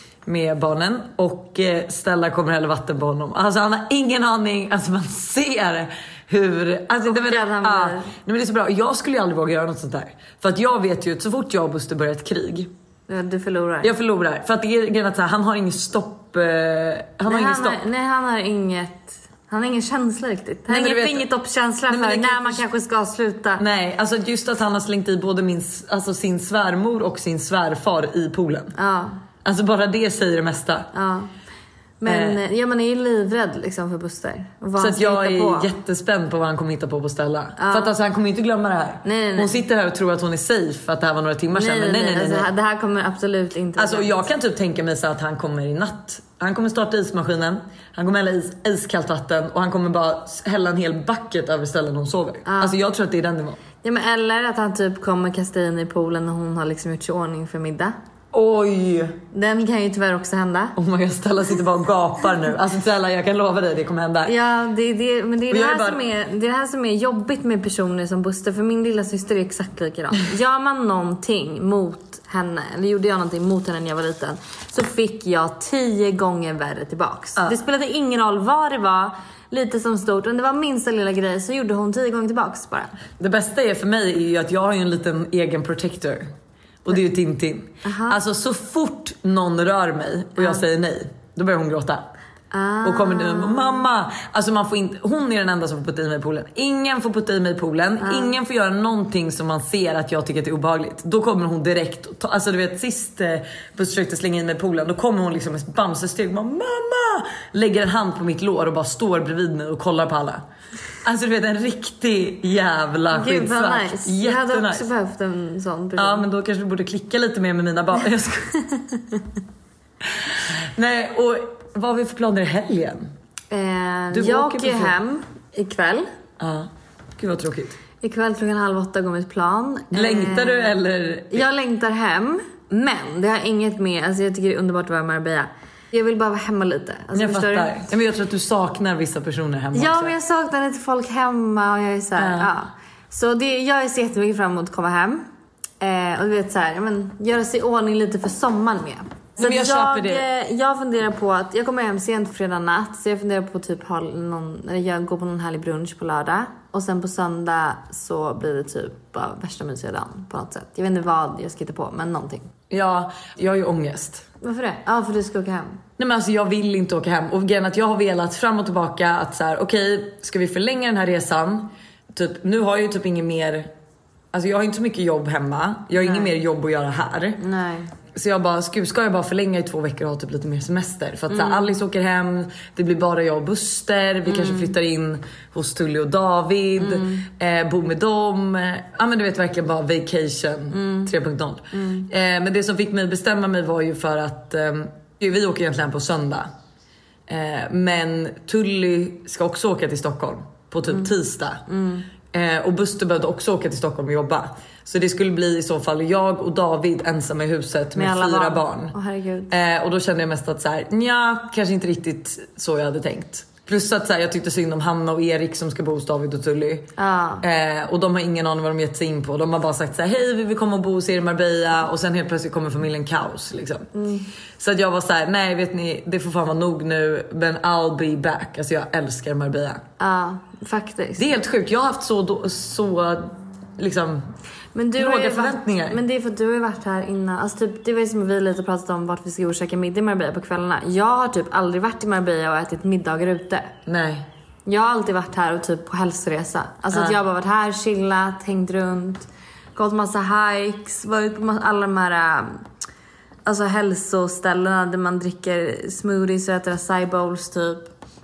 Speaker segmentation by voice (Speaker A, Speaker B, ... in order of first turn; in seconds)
Speaker A: 0.2-12.7, 13.8-17.8, 20.7-21.3, 21.9-22.6, 23.6-28.7, 29.4-30.9, 32.1-32.4, 34.8-42.5, 43.8-53.6, 58.3-59.2, 60.8-64.3, 65.5-66.0, 83.2-86.2, 86.8-92.0, 92.8-110.4, 111.0-114.9, 116.0-118.6, 120.2-123.1, 124.1-125.0, 126.4-127.8, 129.9-131.5, 137.1-140.2, 142.2-142.5, 149.4-150.2, 162.7-164.2, 166.0-173.7, 174.3-177.4, 178.1-196.5, 197.3-201.6, 202.3-208.9, 209.5-216.9, 217.4-223.9, 224.6-229.8, 231.2-234.3, 235.0-236.0, 243.8-244.2
Speaker B: 7.0-8.1, 13.1-13.9, 17.2-23.6, 28.8-29.2, 30.9-31.3, 32.0-35.7, 37.6-37.9, 39.0-39.5, 41.5-44.3, 52.4-52.8, 53.8-57.9, 59.3-60.7, 64.2-82.9, 87.8-88.2, 90.4-90.6, 92.5-93.9, 98.0-98.3, 113.1-116.3, 123.5-126.0, 128.0-130.8, 131.3-137.8, 139.7-145.2, 145.8-162.5, 164.4-165.8, 176.0-176.3, 177.4-177.9, 181.3-181.7, 184.3-184.7, 186.8-187.2, 190.7-191.1, 191.7-192.1, 201.7-202.1, 207.9-209.5, 217.0-217.4, 223.9-224.2, 230.0-231.3, 234.7-243.7, 244.7-252.6, 253.4-257.9